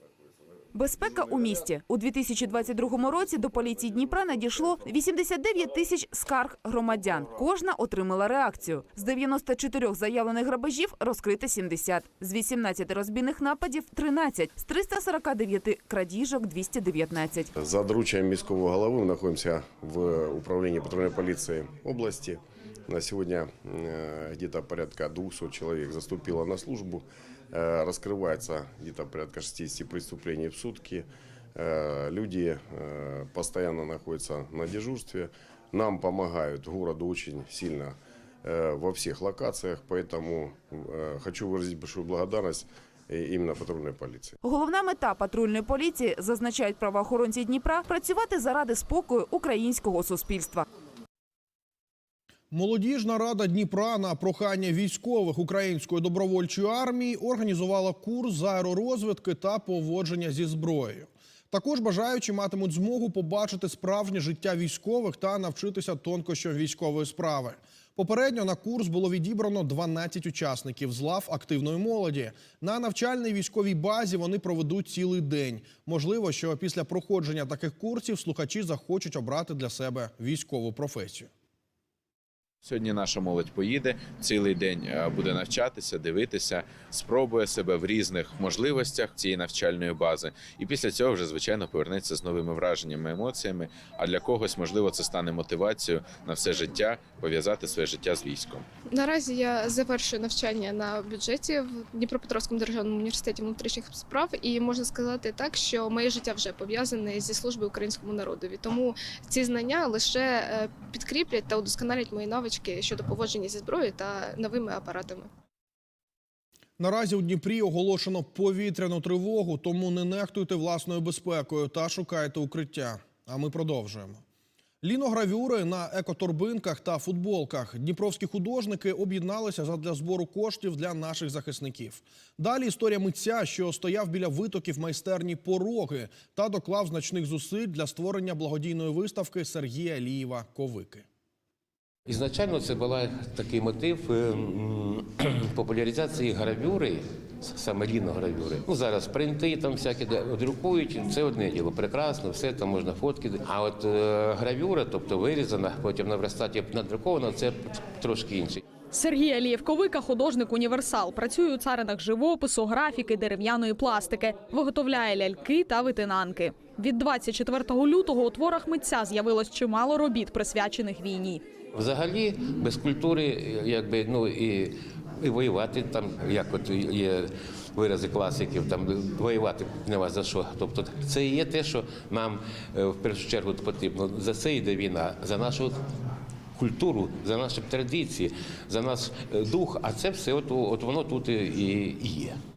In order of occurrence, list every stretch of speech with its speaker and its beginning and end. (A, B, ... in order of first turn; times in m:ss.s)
0:00.7-0:17.5 A
0:17.6-0:44.4 B
0:44.4-0:50.6 A
0:52.5-1:21.3 C
1:22.6-1:38.7 D
1:38.9-1:55.3 E
1:56.8-2:04.2 C
2:04.8-2:21.1 C
2:22.1-2:38.6 F
2:38.9-2:51.4 G
2:51.7-3:05.8 F
3:06.6-3:12.4 F